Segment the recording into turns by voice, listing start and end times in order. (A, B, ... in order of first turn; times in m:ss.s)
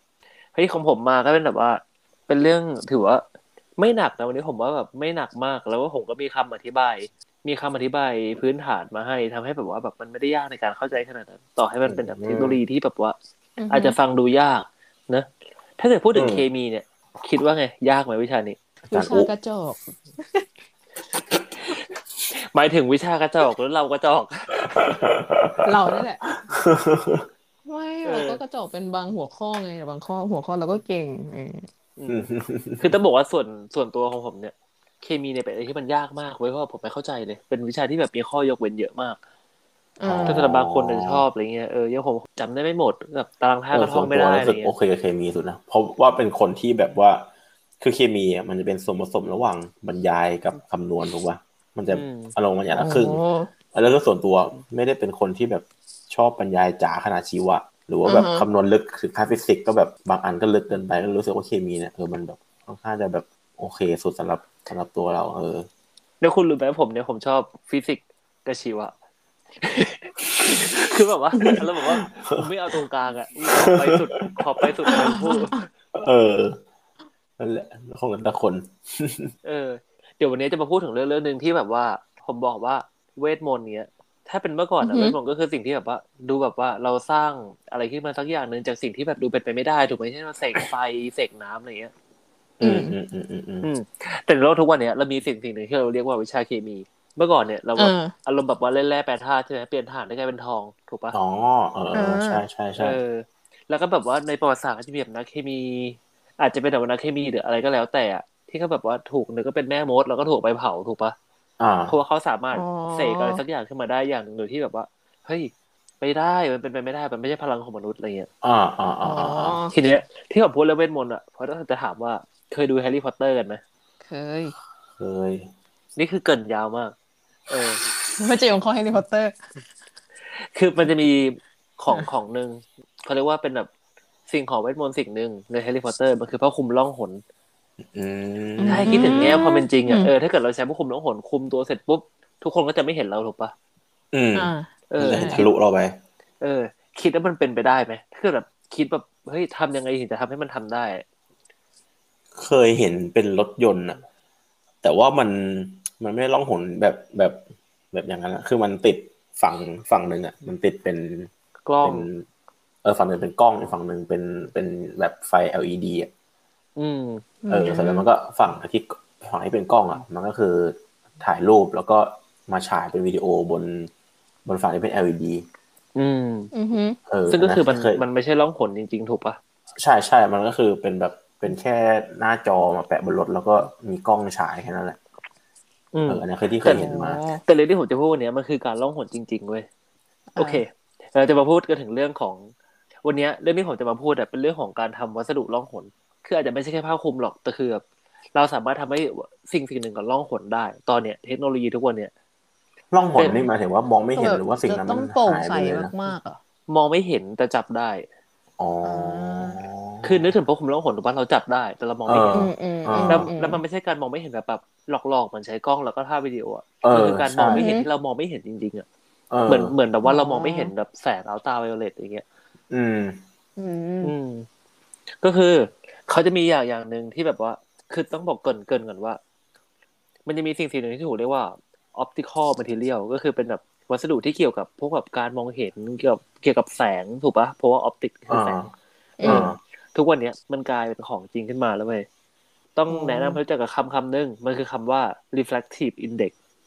0:00.6-0:03.2 A
0:03.8-0:13.2 A
0:11.8-0:12.6 B
0:13.6-0:14.0 C
0:13.7-0:15.3 A
0:15.8-0:18.6 A
0:16.1-0:16.4 B
0:18.9-0:20.4 C
0:18.9-0:19.3 B
0:22.4-0:24.8 A
0:24.7-0:27.3 B
0:25.6-0:26.3 C
0:27.6-0:31.7 C
0:28.0-0:28.4 A
0:32.0-0:39.2 A
0:32.1-0:32.9 B
0:40.0-0:40.5 C
0:40.0-0:41.2 B
0:40.3-0:44.7 A
0:43.7-0:47.3 B
0:47.8-0:53.2 B
0:51.9-0:52.4 A
0:52.8-0:53.5 C
0:53.7-1:05.7 B
0:58.0-0:58.4 C
1:06.2-1:08.9 A
1:09.6-1:15.6 A
1:12.2-1:12.5 B
1:13.6-1:15.2 B
1:15.0-1:15.5 C
1:15.9-1:16.6 B
1:17.4-1:19.3 B
1:19.4-1:31.9 A
1:24.8-1:25.2 C
1:32.6-1:33.7 B
1:32.6-1:32.9 C
1:33.6-1:41.2 A
1:37.8-1:38.1 C
1:41.1-1:43.0 B
1:41.9-1:42.4 C
1:42.8-1:51.2 A
1:51.6-1:51.9 B
1:51.9-1:58.3 A
1:52.5-1:53.4 C
1:58.4-1:59.6 B
1:59.0-1:59.7 C
1:59.7-2:03.6 A
2:04.0-2:04.6 C
2:05.0-2:05.5 B
2:06.0-2:06.9 A
2:07.5-2:07.8 A
2:08.1-2:09.4 C
2:10.5-2:13.7 A
2:14.3-2:17.2 A
2:17.9-2:19.4 B
2:18.6-2:20.1 C
2:18.7-2:23.5 A
2:24.1-2:26.0 B
2:24.4-2:25.4 C
2:24.9-2:25.5 A
2:26.4-2:31.0 A
2:32.4-2:34.0 B
2:34.8-2:41.3 B
2:41.7-2:42.1 A
2:41.8-2:42.3 B
2:42.8-2:46.1 B
2:46.8-2:47.3 A
2:47.4-2:48.1 C
2:47.5-2:53.9 B
2:54.4-2:55.5 B
2:56.0-2:56.5 A
2:56.5-2:57.0 C
2:57.1-2:58.0 B
2:57.3-2:59.4 A
2:59.8-3:05.0 B
3:05.9-3:06.9 A
3:06.1-3:07.2 B
3:06.7-3:07.4 C
3:07.5-3:09.7 A
3:10.3-3:10.6 C
3:10.4-3:12.5 A
3:13.0-3:17.8 A
3:18.4-3:22.1 A
3:22.9-3:25.9 B
3:23.2-3:23.4 A
3:24.2-3:26.4 C
3:26.7-3:28.1 A
3:28.6-3:30.3 B
3:28.8-3:29.6 C
3:30.0-3:32.5 A
3:32.1-3:33.3 B
3:32.3-3:33.6 C
3:33.1-3:38.9 A
3:36.8-3:37.6 B
3:37.5-3:37.9 C
3:39.3-3:39.7 B
3:39.5-3:42.2 A
3:40.0-3:40.7 C
3:42.7-3:43.2 B
3:43.6-3:44.1 C
3:44.0-3:44.5 A
3:45.2-3:49.2 A
3:50.3-3:58.6 A
3:58.3-3:58.7 B
3:59.2-4:02.1 A
3:59.2-3:59.5 C
3:59.2-3:59.6 B
4:02.8-4:06.3 A
4:02.9-4:03.4 C